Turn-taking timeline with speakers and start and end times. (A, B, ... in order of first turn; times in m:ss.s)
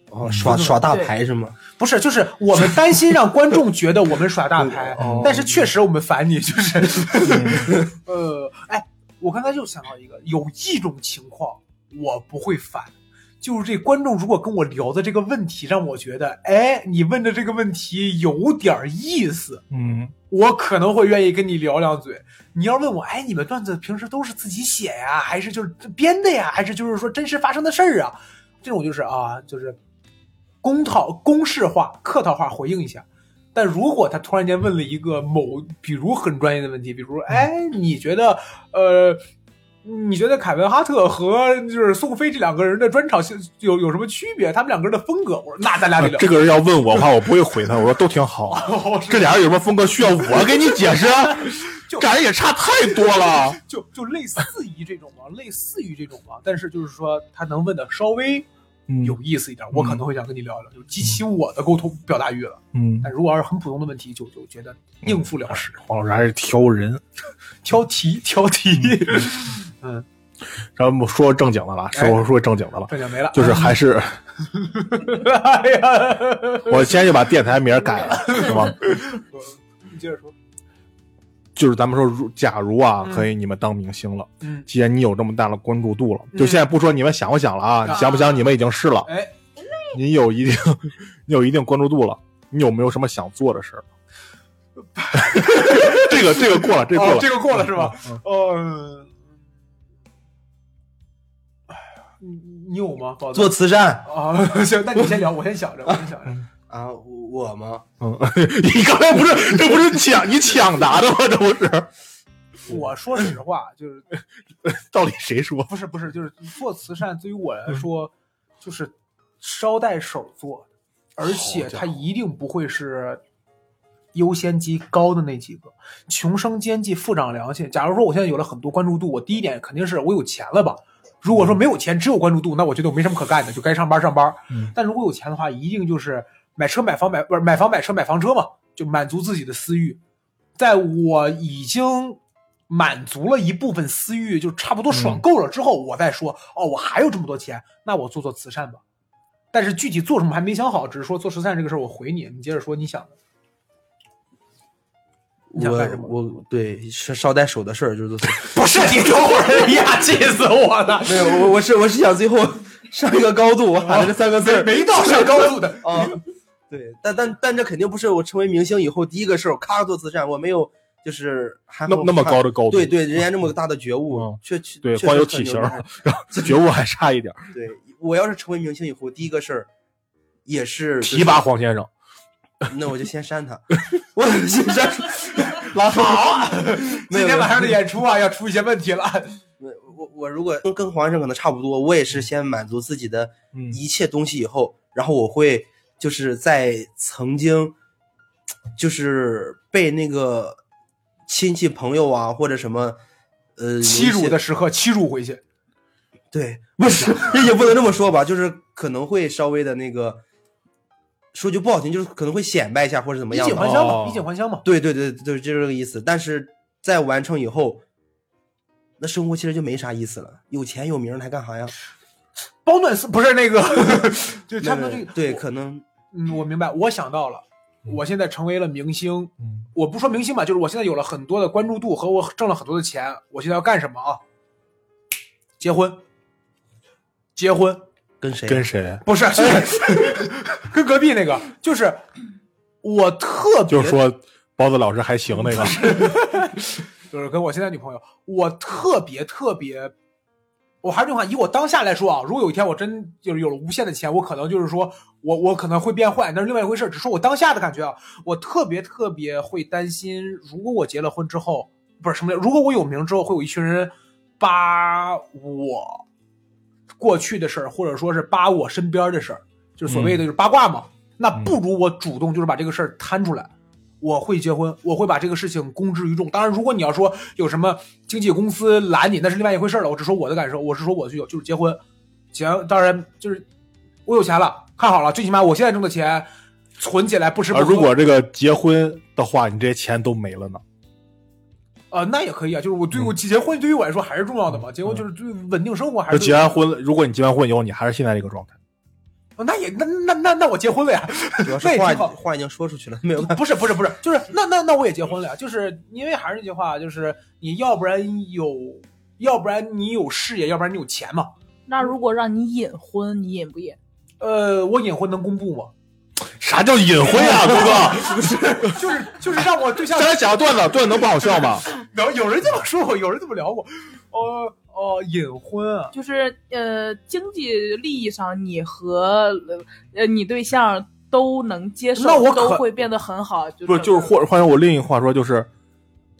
0:00.1-0:01.6 A
0:00.2-0:00.6 B
0:00.3-0:00.9 C
0:01.7-0:19.6 C
0:04.6-0:05.7 A
0:05.0-0:05.4 B
0:07.2-0:07.7 B
0:07.6-0:07.8 A
0:19.7-0:20.1 B
0:20.3-0:29.8 C
0:30.6-0:39.2 C
0:39.8-0:46.4 C
0:46.0-0:53.6 B
0:48.5-0:49.5 C
0:50.2-0:52.2 C
0:53.1-0:58.5 C
0:58.9-0:59.2 B
0:59.0-1:05.7 C
0:59.7-1:00.0 B
1:02.7-1:03.1 B
1:05.0-1:07.0 B
1:07.6-1:10.0 C
1:10.8-1:14.2 B
1:11.9-1:12.2 C
1:12.9-1:13.8 C
1:14.5-1:17.0 C
1:16.7-1:18.8 B
1:18.0-1:20.3 C
1:21.6-1:29.1 B
1:23.0-1:23.3 C
1:24.4-1:24.7 C
1:26.3-1:26.7 C
1:27.8-1:28.4 C
1:29.0-1:29.3 C
1:29.9-1:33.8 B
1:35.0-1:39.2 C
1:35.1-1:38.2 B
1:42.2-1:46.4 C
1:43.3-1:44.1 A
1:46.7-1:47.9 A
1:48.0-1:51.9 B
1:52.7-1:54.1 C
1:54.6-1:55.7 B
1:55.7-2:03.2 C
2:01.2-2:01.8 B
2:04.1-2:20.0 C
2:20.6-2:28.8 C
2:24.9-2:25.2 B
2:29.5-2:33.1 C
2:35.5-2:38.5 A
2:35.6-2:36.1 C
2:38.4-2:41.5 C
2:41.0-2:56.6 A
2:43.8-2:46.2 C
2:51.9-2:53.3 B
2:54.1-2:57.5 B
2:57.5-2:59.7 A
3:00.4-3:01.4 A
3:01.0-3:01.9 B
3:02.7-3:06.1 A
3:05.6-3:06.4 B
3:05.8-3:09.4 C
3:06.9-3:07.7 A
3:09.6-3:17.7 A
3:13.5-3:13.8 B
3:18.8-3:20.6 A
3:21.3-3:23.0 A
3:23.6-3:24.4 A
3:23.8-3:25.4 C
3:26.3-3:30.2 A
3:31.3-3:34.0 A
3:33.3-3:34.6 C
3:33.6-3:34.2 B
3:34.6-3:37.8 A
3:39.0-3:41.7 A
3:42.6-3:45.4 C
3:44.6-3:45.8 A
3:46.1-3:54.2 C
3:55.6-3:56.0 C
3:57.4-3:57.9 C
3:58.2-3:58.6 A
3:58.5-3:59.0 B
3:59.0-4:02.0 C
3:59.4-3:59.7 A
4:02.8-4:04.0 C
4:03.7-4:06.1 B
4:05.4-4:09.9 C
4:10.8-4:26.0 C
4:27.0-4:41.8 C
4:29.9-4:30.2 B
4:42.3-4:43.4 C
4:44.0-4:48.0 C
4:47.5-4:50.6 B
4:51.9-4:56.5 C
4:56.1-4:58.6 B
4:59.4-5:02.1 C
5:01.4-5:03.4 A
5:03.2-5:11.3 C
5:11.7-5:13.8 D
5:14.2-5:15.7 C
5:16.4-5:18.8 B
5:17.0-5:25.9 C
5:19.9-5:21.7 B
5:25.9-5:34.2 D
5:32.0-5:32.8 C
5:33.7-5:35.5 B